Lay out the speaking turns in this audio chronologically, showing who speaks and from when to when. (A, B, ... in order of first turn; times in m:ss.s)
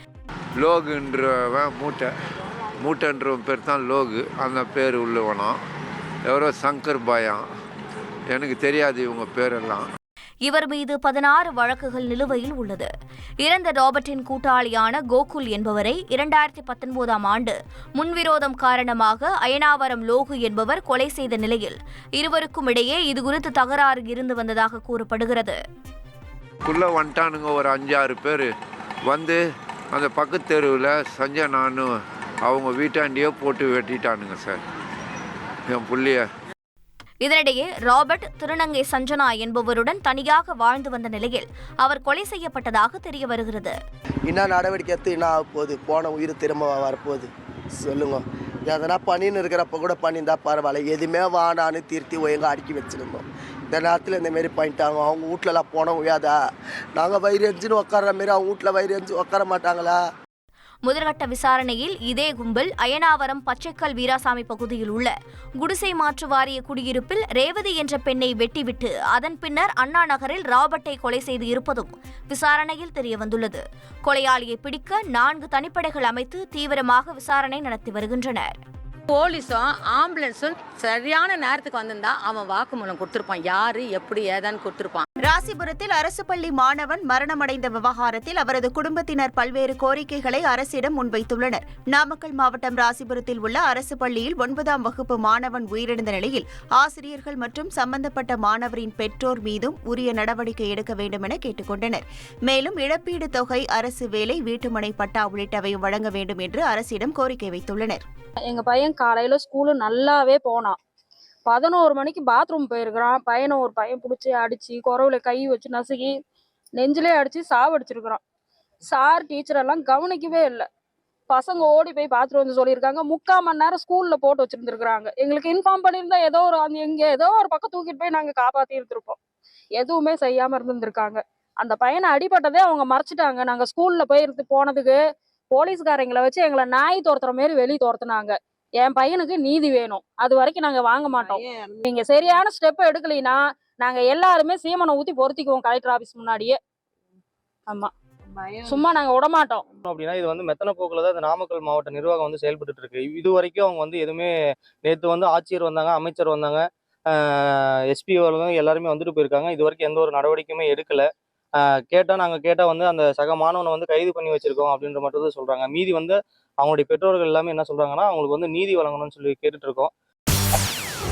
0:00.6-0:02.1 A
0:02.8-0:05.6 A
0:06.3-0:07.4 A
0:08.3-0:09.9 A
0:10.5-0:12.9 B
0:13.4-0:25.6 B
0:26.6-0:28.5 A
0:29.1-0:29.4 A
0:29.9-0:31.9 A
0:32.4-0:34.6 A
0:35.7-0:36.2 A
0:37.2-0:43.7 B
0:44.3-0:56.4 C
0:57.0-1:00.0 C
1:00.8-1:18.6 B
1:19.1-1:25.0 D
1:25.2-1:48.0 E
1:48.5-1:50.8 F
1:51.4-1:56.1 F
1:56.8-1:58.2 F
1:58.9-2:00.7 F
2:01.3-2:09.2 F
2:09.8-2:15.0 F
2:15.5-2:26.6 F
2:28.6-2:29.6 F
2:29.8-2:34.3 G
2:34.8-2:41.1 G
2:41.6-2:49.9 G